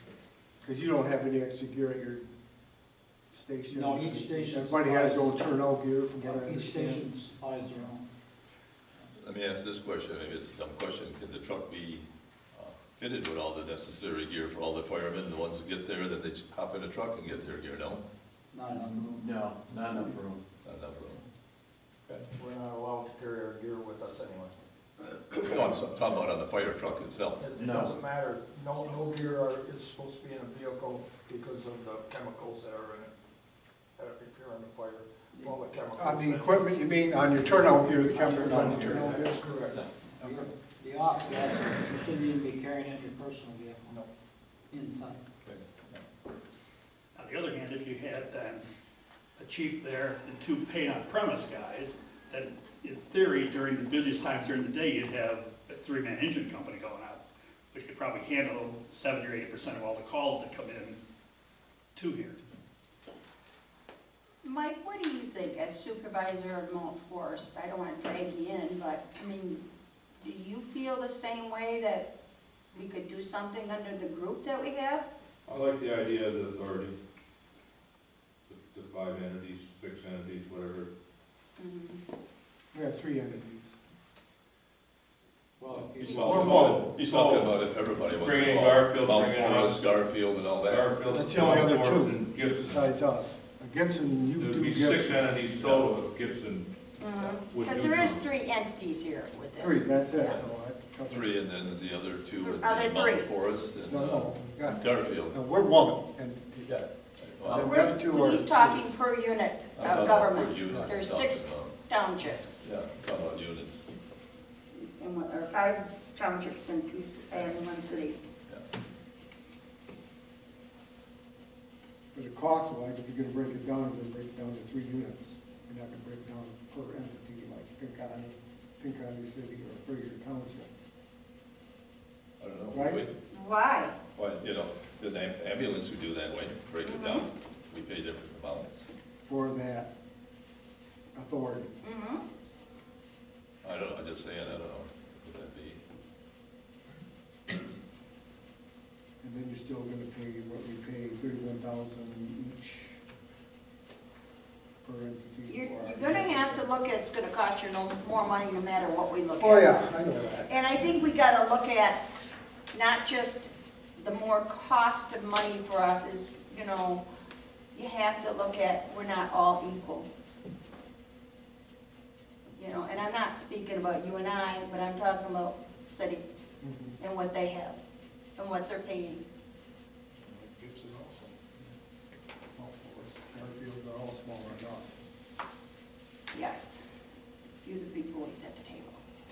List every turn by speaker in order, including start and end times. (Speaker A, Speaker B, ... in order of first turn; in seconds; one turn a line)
Speaker A: 0.6-2.2
Speaker A: 3.3-7.1
Speaker B: 3.7-5.6
Speaker B: 6.2-8.0
Speaker C: 9.2-18.0
Speaker B: 18.5-19.2
Speaker D: 18.8-20.4
Speaker C: 20.6-21.2
Speaker E: 22.3-24.5
Speaker C: 25.1-27.4
Speaker E: 27.4-33.1
Speaker D: 27.6-27.9
Speaker E: 34.0-36.7
Speaker A: 36.0-39.5
Speaker B: 38.0-38.8
Speaker D: 38.1-39.1
Speaker E: 38.3-39.8
Speaker B: 40.2-43.9
Speaker A: 40.2-40.5
Speaker B: 44.7-45.2
Speaker C: 45.4-46.0
Speaker F: 47.1-48.6
Speaker F: 49.4-61.0
Speaker F: 62.0-62.4
Speaker G: 64.4-69.6
Speaker G: 70.2-72.1
Speaker G: 72.7-75.1
Speaker H: 75.5-77.0
Speaker H: 78.5-80.9
Speaker G: 81.6-82.0
Speaker A: 82.7-83.8
Speaker B: 85.6-86.6
Speaker H: 86.1-87.5
Speaker A: 86.2-86.9
Speaker C: 86.4-90.9
Speaker H: 88.1-89.9
Speaker H: 90.7-92.9
Speaker A: 91.1-95.9
Speaker H: 94.4-98.2
Speaker G: 97.0-100.4
Speaker A: 99.6-101.5
Speaker C: 101.1-105.4
Speaker G: 102.4-103.3
Speaker A: 103.9-106.8
Speaker C: 106.7-108.0
Speaker A: 107.4-108.9
Speaker G: 107.5-112.6
Speaker C: 109.8-111.8
Speaker C: 112.6-113.9
Speaker G: 114.7-118.2
Speaker A: 122.1-130.7
Speaker C: 132.4-133.1
Speaker A: 132.7-133.0
Speaker G: 133.3-133.9
Speaker C: 134.2-138.8
Speaker G: 136.8-137.3
Speaker A: 139.3-139.9
Speaker A: 141.2-141.7
Speaker G: 141.8-142.2
Speaker C: 143.6-145.8
Speaker A: 149.2-153.0
Speaker A: 154.8-156.7
Speaker G: 155.5-159.7
Speaker A: 159.4-160.5
Speaker G: 160.5-162.0
Speaker G: 162.7-167.0
Speaker G: 167.7-170.1
Speaker G: 172.6-176.2
Speaker A: 176.6-177.0
Speaker G: 177.0-177.8
Speaker G: 178.4-179.2
Speaker E: 180.2-181.3
Speaker A: 182.6-185.0
Speaker G: 186.3-186.8
Speaker G: 187.6-189.0